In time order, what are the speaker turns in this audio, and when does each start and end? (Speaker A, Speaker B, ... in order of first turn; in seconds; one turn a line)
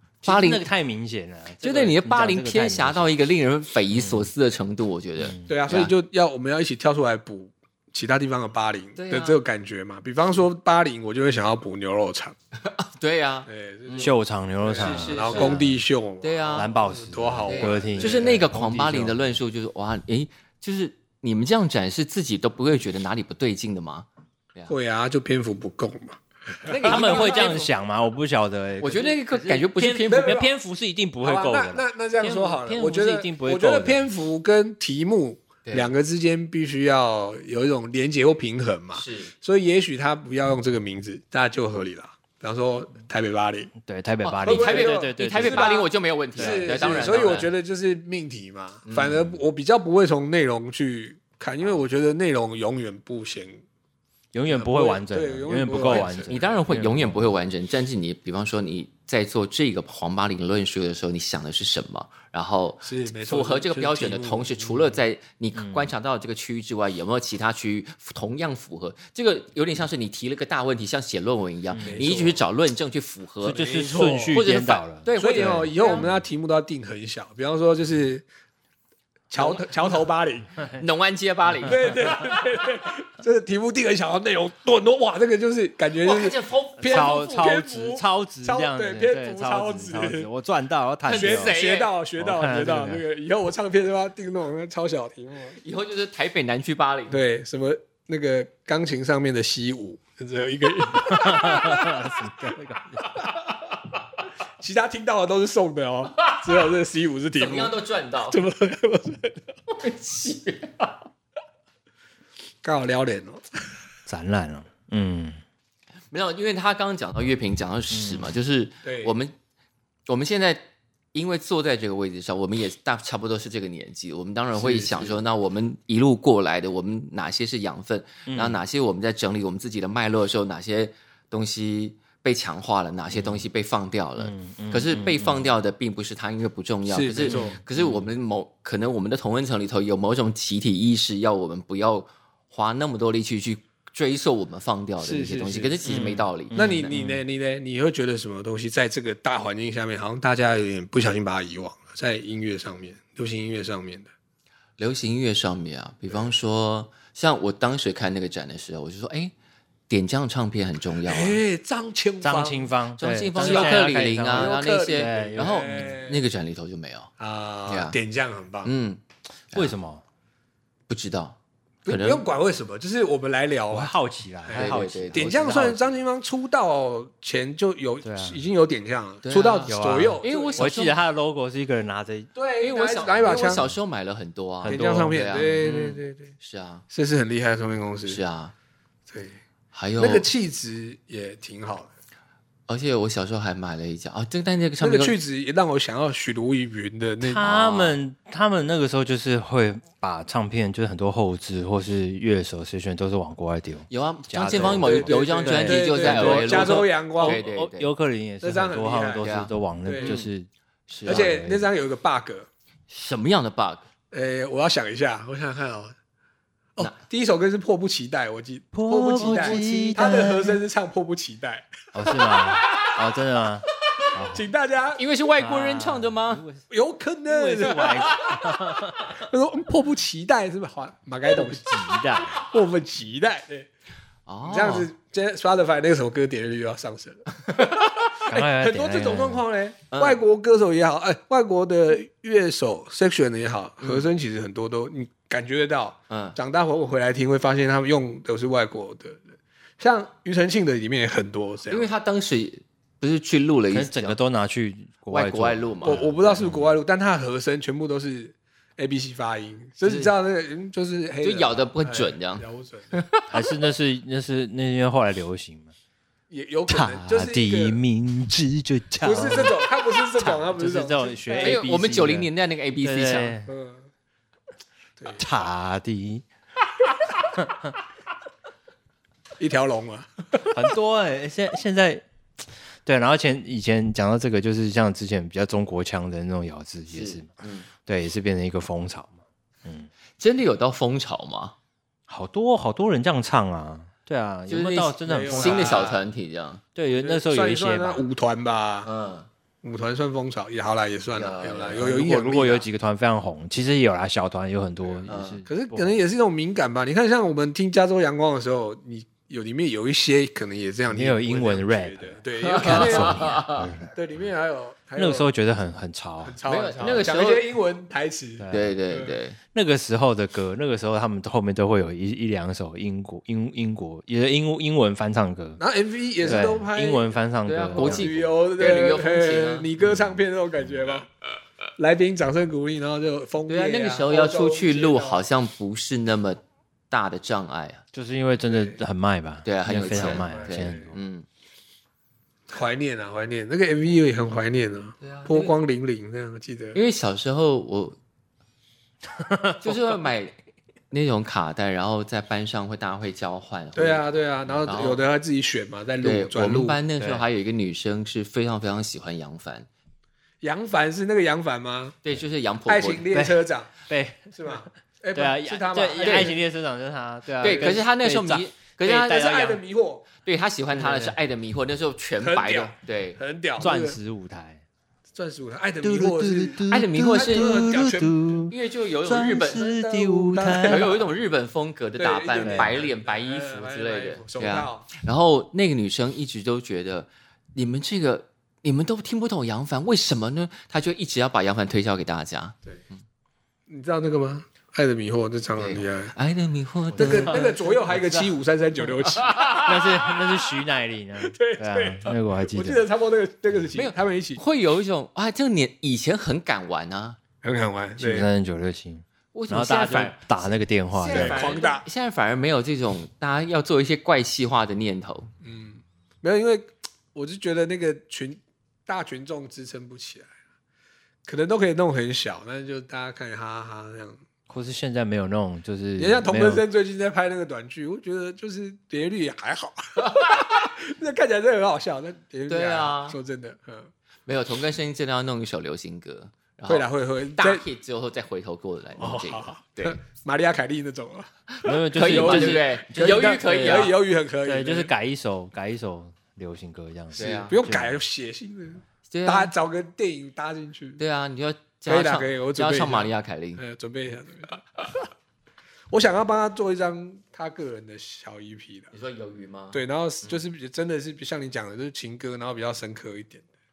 Speaker A: 0.2-0.7
Speaker B: 0.2-3.1
Speaker A: 1.6-5.9
Speaker B: 3.9-4.3
Speaker B: 5.2-5.8
Speaker C: 5.5-12.4
Speaker A: 9.0-9.4
Speaker A: 12.6-14.1
Speaker C: 13.5-18.4
Speaker B: 14.0-15.8
Speaker A: 14.7-15.6
Speaker A: 16.2-16.7
Speaker B: 16.6-19.4
Speaker A: 17.4-24.7
Speaker C: 24.7-27.7
Speaker A: 26.6-27.7
Speaker B: 26.9-34.0
Speaker A: 28.8-30.4
Speaker C: 30.1-30.5
Speaker C: 31.2-43.7
Speaker A: 35.6-35.9
Speaker A: 38.9-39.3
Speaker B: 43.8-45.7
Speaker A: 44.2-47.5
Speaker C: 44.4-53.6
Speaker B: 46.4-46.9
Speaker A: 48.9-49.4
Speaker B: 54.3-57.2
Speaker C: 54.5-56.3
Speaker A: 55.9-73.7
Speaker C: 62.8-64.9
Speaker B: 65.6-65.9
Speaker B: 71.7-72.0
Speaker C: 71.8-72.4
Speaker B: 73.4-76.2
Speaker C: 73.5-74.4
Speaker A: 74.3-76.1
Speaker C: 75.2-78.3
Speaker C: 79.3-80.5
Speaker A: 79.4-79.7
Speaker A: 80.8-82.2
Speaker C: 81.6-90.3
Speaker B: 81.7-82.1
Speaker A: 86.0-87.3
Speaker B: 86.8-91.5
Speaker A: 91.1-91.9
Speaker C: 91.1-95.6
Speaker B: 92.2-93.0
Speaker A: 95.6-97.2
Speaker C: 97.1-102.2
Speaker B: 101.0-103.2
Speaker C: 103.1-103.7
Speaker C: 104.6-109.4
Speaker A: 106.2-106.5
Speaker A: 107.3-108.4
Speaker A: 109.7-110.9
Speaker C: 112.6-113.4
Speaker B: 114.1-115.4
Speaker A: 116.1-119.3
Speaker B: 117.9-118.3
Speaker C: 118.8-119.1
Speaker A: 120.1-120.6
Speaker A: 121.1-146.9
Speaker C: 124.5-125.2
Speaker B: 128.3-128.6
Speaker B: 133.1-133.4
Speaker B: 134.2-135.5
Speaker C: 136.9-137.6
Speaker B: 137.3-138.0
Speaker C: 145.0-145.8
Speaker B: 145.9-147.2
Speaker C: 146.5-154.1
Speaker A: 154.8-159.3
Speaker A: 159.9-161.4
Speaker C: 161.0-162.7
Speaker B: 162.2-165.9
Speaker A: 163.0-167.1
Speaker C: 163.4-166.2
Speaker C: 167.2-168.7
Speaker A: 167.7-168.0
Speaker A: 168.6-169.0
Speaker B: 169.5-170.0
Speaker A: 170.9-172.2
Speaker C: 171.8-180.7
Speaker B: 173.7-175.8
Speaker A: 174.5-175.9
Speaker B: 178.0-178.4
Speaker A: 179.2-181.0
Speaker B: 179.7-182.3
Speaker C: 182.3-183.7
Speaker A: 182.6-186.8
Speaker B: 184.6-185.2
Speaker C: 184.6-186.3
Speaker C: 186.9-188.2
Speaker A: 188.1-188.5
Speaker C: 189.1-189.4
Speaker A: 189.7-190.3
Speaker C: 190.0-191.9
Speaker A: 192.7-195.2
Speaker C: 194.8-197.8
Speaker B: 197.2-210.5
Speaker A: 203.9-207.9
Speaker C: 204.5-207.4
Speaker C: 208.4-209.3
Speaker A: 209.2-210.3
Speaker C: 209.8-210.2
Speaker A: 210.9-211.6
Speaker C: 211.1-212.5
Speaker B: 211.1-211.6
Speaker A: 212.9-213.9
Speaker C: 214.1-215.9
Speaker C: 216.8-221.7
Speaker B: 218.7-220.6
Speaker A: 219.2-219.6
Speaker B: 221.9-224.5
Speaker C: 224.3-225.0
Speaker A: 225.0-226.4
Speaker B: 225.4-226.6
Speaker C: 226.7-228.5
Speaker B: 227.3-229.2
Speaker C: 229.1-231.8
Speaker B: 231.3-232.4
Speaker C: 232.3-233.7
Speaker A: 234.3-234.9
Speaker C: 234.4-249.2
Speaker B: 238.3-239.4
Speaker A: 239.9-240.2
Speaker A: 243.8-244.1
Speaker A: 246.1-246.4
Speaker C: 249.8-251.9
Speaker A: 251.7-254.2
Speaker B: 253.7-256.7
Speaker A: 255.1-256.1
Speaker C: 255.8-263.0
Speaker A: 259.9-260.1
Speaker A: 261.2-263.2
Speaker B: 263.3-265.7
Speaker C: 266.3-267.8
Speaker B: 266.7-272.3
Speaker C: 269.0-271.6
Speaker A: 271.4-273.4
Speaker B: 272.8-273.5
Speaker C: 273.5-273.9
Speaker C: 275.0-275.3
Speaker B: 275.2-276.2
Speaker B: 277.3-277.7
Speaker C: 279.4-280.7
Speaker B: 280.5-282.0
Speaker B: 282.8-287.3
Speaker A: 286.9-287.7
Speaker B: 287.9-289.1
Speaker A: 290.2-291.6
Speaker B: 292.1-296.0
Speaker A: 294.5-296.6
Speaker C: 295.1-296.0
Speaker B: 296.8-298.0
Speaker C: 296.9-298.9
Speaker A: 298.9-299.3
Speaker C: 299.6-302.6
Speaker A: 301.1-301.9
Speaker B: 301.8-306.0
Speaker C: 305.0-315.3
Speaker A: 305.1-305.4
Speaker B: 310.9-313.9
Speaker A: 312.4-313.7
Speaker B: 315.0-317.0
Speaker C: 316.2-319.2
Speaker A: 316.4-317.4
Speaker B: 318.4-318.7
Speaker A: 318.5-319.4
Speaker B: 319.5-325.6
Speaker C: 325.6-327.1
Speaker B: 326.2-328.2
Speaker A: 327.5-329.7
Speaker C: 327.7-331.1
Speaker C: 331.8-335.2
Speaker A: 333.5-337.8
Speaker B: 337.9-341.0
Speaker C: 338.4-338.8
Speaker A: 339.4-341.3
Speaker C: 339.7-340.9
Speaker C: 342.5-346.8
Speaker A: 345.0-345.5
Speaker A: 346.7-348.0
Speaker B: 349.2-349.9
Speaker A: 349.6-350.3
Speaker A: 350.9-354.0
Speaker C: 353.8-356.8
Speaker A: 354.7-355.0
Speaker A: 356.0-359.7
Speaker B: 357.0-357.2
Speaker C: 360.4-362.0
Speaker A: 362.0-363.1
Speaker C: 362.7-363.7
Speaker B: 363.1-364.6
Speaker C: 364.3-366.4
Speaker B: 365.1-368.5
Speaker A: 366.0-366.3
Speaker A: 367.4-369.6
Speaker C: 367.4-367.8
Speaker C: 368.8-370.1
Speaker A: 370.2-373.2
Speaker B: 370.7-371.2
Speaker C: 372.2-374.0
Speaker B: 373.6-374.6
Speaker C: 375.1-378.2
Speaker B: 375.8-378.5
Speaker A: 376.7-377.7
Speaker A: 378.5-379.7
Speaker B: 379.1-380.9
Speaker C: 379.1-381.0
Speaker A: 380.5-392.6
Speaker C: 382.0-384.9
Speaker B: 382.4-382.8
Speaker C: 393.7-396.1
Speaker A: 395.6-397.6
Speaker C: 397.0-400.0
Speaker B: 397.0-398.3
Speaker A: 399.1-399.7
Speaker B: 399.6-402.9
Speaker C: 401.2-404.4
Speaker A: 403.7-407.2
Speaker C: 407.4-408.3
Speaker B: 408.0-411.5
Speaker A: 409.3-410.4
Speaker C: 410.9-411.9
Speaker A: 411.0-415.3
Speaker C: 415.4-420.4
Speaker C: 421.2-424.2
Speaker B: 424.5-426.6
Speaker C: 426.0-433.9
Speaker A: 432.5-433.2
Speaker A: 434.3-436.9
Speaker C: 436.7-437.6
Speaker A: 437.4-440.0
Speaker C: 439.0-441.3
Speaker A: 441.6-444.0
Speaker B: 441.6-443.9
Speaker C: 441.9-444.9
Speaker B: 444.4-448.0
Speaker A: 447.2-447.5
Speaker C: 447.2-451.0
Speaker A: 449.1-449.5
Speaker A: 451.0-453.6
Speaker C: 451.9-455.1
Speaker C: 455.9-458.9
Speaker A: 458.9-460.4
Speaker C: 459.7-463.4